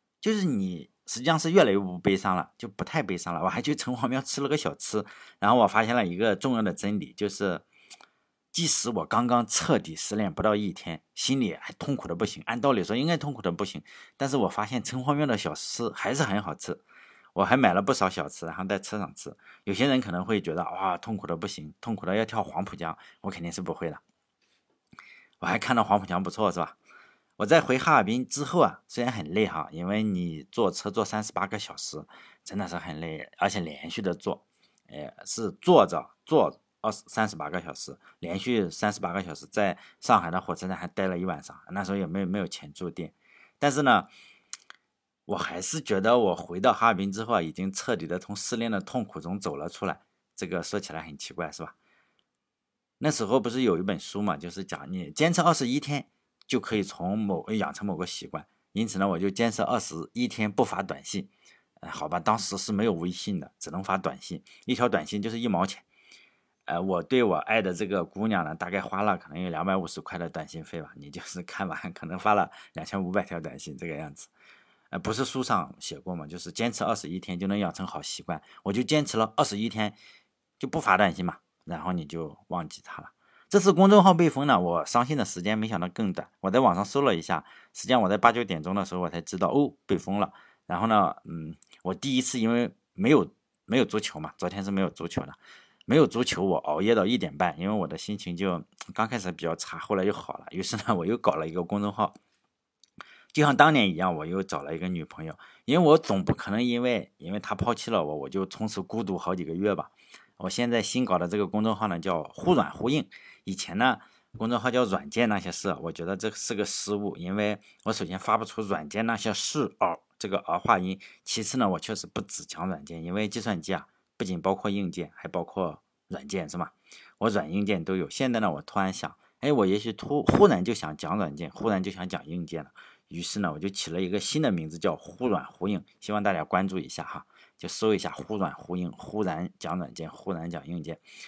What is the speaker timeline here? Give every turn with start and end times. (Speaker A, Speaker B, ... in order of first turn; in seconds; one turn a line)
Speaker A: 0.2-7.6
Speaker A: 8.5-16.8
Speaker A: 17.3-24.0
Speaker A: 25.4-26.8
Speaker A: 27.4-44.1
Speaker A: 45.3-51.8
Speaker A: 53.0-61.3
Speaker A: 61.8-65.8
Speaker A: 66.7-74.3
Speaker A: 74.9-80.0
Speaker A: 80.6-102.2
Speaker A: 103.3-141.0